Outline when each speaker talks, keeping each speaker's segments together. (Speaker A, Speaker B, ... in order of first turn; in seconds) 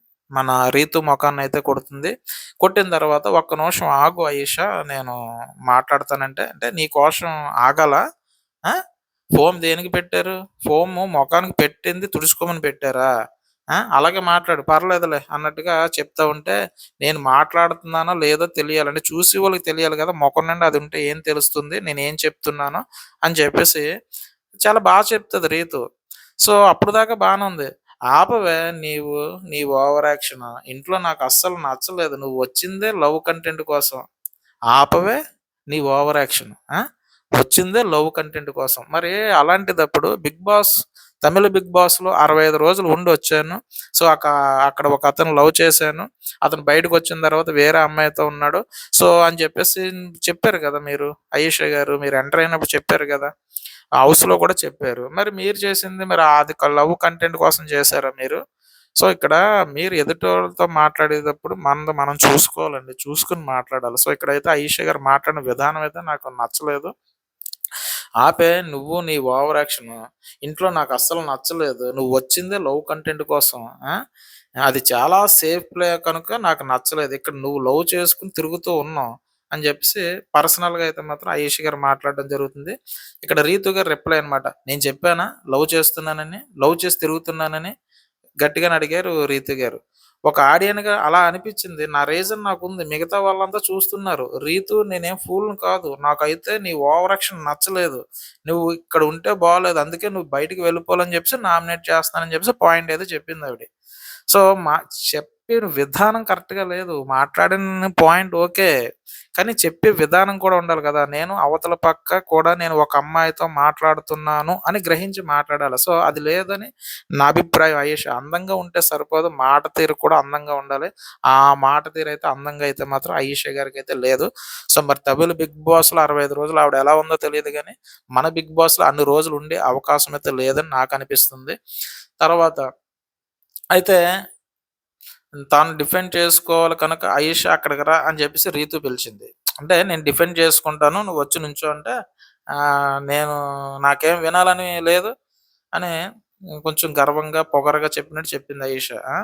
Speaker A: 0.4-2.1, 2.6-5.2, 5.7-8.0, 9.4-13.1, 13.9-23.8, 24.6-25.8, 26.4-34.0, 34.7-35.2, 35.7-36.6, 37.4-40.7, 41.2-53.3, 54.0-58.4, 59.0-66.9, 68.2-73.7, 74.7-87.7, 88.4-103.7, 104.3-108.7, 109.4-131.6, 132.2-132.6, 135.5-141.9, 143.1-145.1, 146.6-149.0